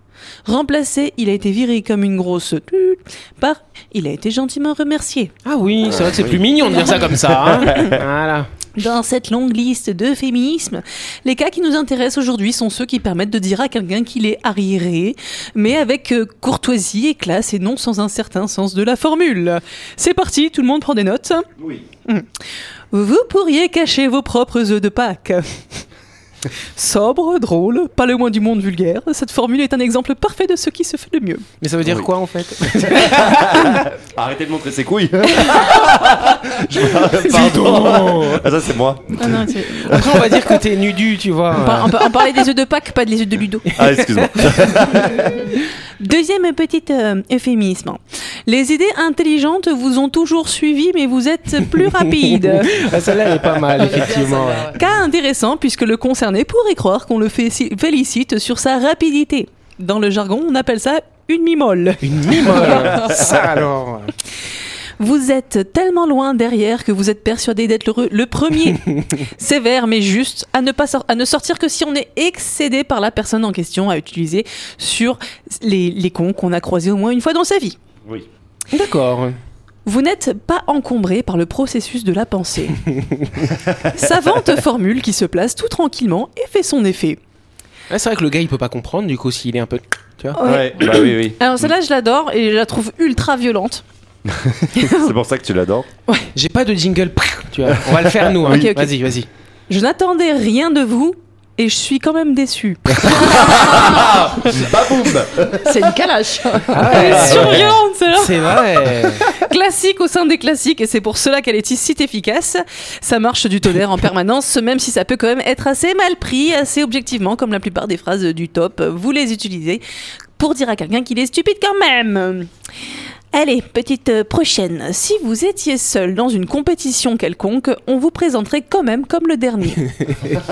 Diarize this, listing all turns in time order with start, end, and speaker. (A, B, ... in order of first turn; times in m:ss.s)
0:00.4-0:05.3 A
0:05.4-0:08.5 B
0:05.8-0:06.4 C
0:06.7-0:07.0 A
0:07.4-0:08.0 C
0:07.6-0:07.9 A
0:08.8-0:21.5 A
0:21.6-0:21.8 C
0:22.9-0:25.8 A
0:26.8-0:31.4 A
0:31.6-0:33.8 B
0:31.8-0:32.1 C
0:32.9-0:39.5 C
0:37.0-0:38.5 B
0:39.2-0:40.2 A
0:39.9-0:42.3 B
0:41.6-0:43.7 A
0:43.7-0:45.3 B
0:43.8-0:45.5 C
0:46.0-0:52.8 A
0:51.8-0:54.8 B
0:53.8-0:54.8 D
0:54.7-1:03.0 A
1:02.0-1:04.1 B
1:03.0-1:03.3 C
1:05.0-1:17.8 A
1:18.7-1:19.4 B
1:19.8-1:22.8 A
1:23.9-1:27.2 A
1:27.9-1:30.4 B
1:30.4-1:33.8 A
1:30.4-1:31.4 C
1:34.3-1:35.9 C
1:34.7-1:35.1 A
1:36.4-1:39.3 B
1:37.9-1:38.7 C
1:38.5-1:38.9 A
1:39.7-1:43.8 A
1:43.0-1:45.9 C
1:45.6-1:47.1 D
1:46.7-1:49.3 B
1:46.8-1:48.6 A
1:47.0-1:47.7 C
1:49.3-1:59.8 A
2:00.4-2:02.5 A
2:03.3-2:09.9 A
2:10.0-2:10.4 B